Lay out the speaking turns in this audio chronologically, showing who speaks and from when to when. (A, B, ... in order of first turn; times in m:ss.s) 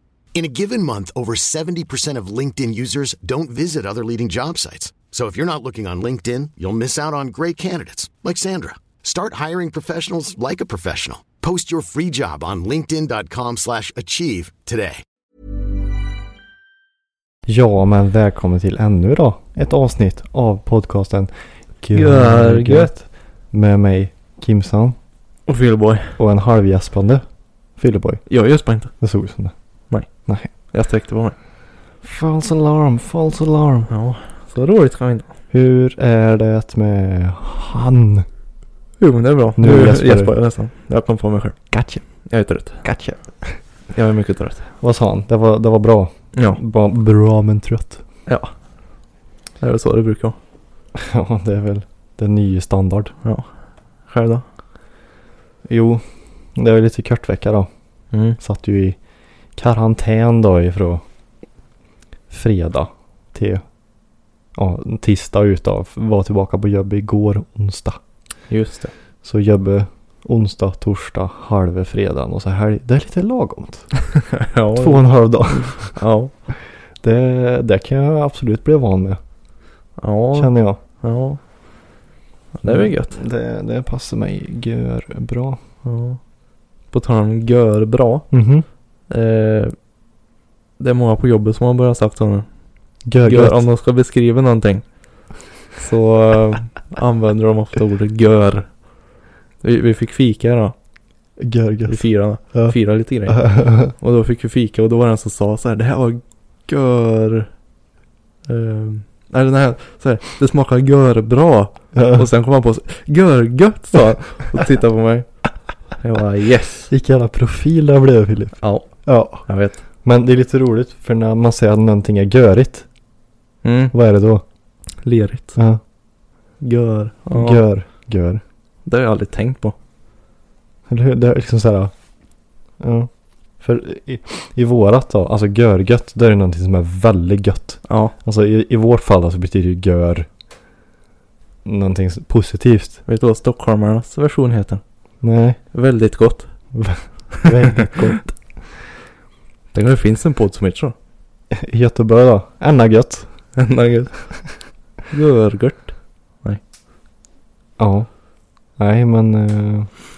0:00.4-0:15.0 A
0:17.5-0:21.3 B
0:21.8-0:25.0 B
0:21.9-0:22.9 C
0:25.5-0:26.2 C
0:26.2-0:27.2 B
0:27.8-0:28.2 B
0:28.3-0:28.9 C
0:29.0-0:29.5 B
0:30.3-0:30.5 B
0:30.7-0:31.4 C
0:32.0-0:33.9 B
0:33.9-0:35.3 C
0:35.5-0:38.3 B
0:39.0-0:41.6 C
0:39.6-0:40.3 B
0:41.7-0:42.0 B
0:42.3-0:42.8 C
0:42.8-0:43.6 B
0:44.0-0:44.7 C
0:44.8-0:48.0 B
0:46.3-0:46.6 C
0:49.6-0:50.4 C
0:51.0-0:53.2 B
0:54.1-0:54.4 C
0:55.7-0:56.0 B
0:56.6-0:57.7 B
0:58.1-0:58.4 C
0:58.4-0:59.0 B
0:59.6-1:01.0 B
1:02.3-1:03.6 B
1:04.6-1:08.0 B
1:08.5-1:08.9 C
1:09.2-1:13.9 B
1:14.3-1:16.3 C
1:14.8-1:16.0 B
1:17.0-1:19.2 B
1:20.0-1:21.4 C
1:20.4-1:20.8 B
1:22.6-1:23.2 C
1:22.6-1:25.6 B
1:25.8-1:26.2 C
1:26.9-1:28.3 C
1:28.3-1:28.7 B
1:29.1-1:29.7 C
1:30.8-1:32.5 C
1:33.1-1:33.6 B
1:33.2-1:34.8 C
1:35.8-1:38.8 C
1:39.6-1:40.7 C
1:41.4-1:42.0 B
1:41.9-1:47.5 C
1:43.3-1:43.9 B
1:48.5-1:55.3 C
1:51.9-1:52.3 B
1:56.0-1:56.9 C
1:56.9-1:59.4 B
1:58.6-1:59.8 C
2:00.0-2:02.9 B
2:03.6-2:03.9 C
2:03.9-2:04.4 B
2:05.0-2:05.6 C
2:05.6-2:05.8 B
2:06.6-2:07.6 C
2:07.3-2:08.4 B
2:08.9-2:09.8 C
2:10.9-2:11.9 B
2:12.8-2:13.1 B
2:13.6-2:20.3 B
2:17.9-2:18.1 C
2:21.6-2:23.0 B
2:23.1-2:24.8 C
2:25.2-2:25.6 B
2:25.7-2:26.5 C
2:26.7-2:28.3 B
2:27.4-2:27.7 C
2:29.7-2:30.9 C
2:31.5-2:33.3 B
2:33.6-2:34.3 C
2:35.1-2:36.6 C
2:37.8-2:38.1 B
2:38.8-2:39.9 B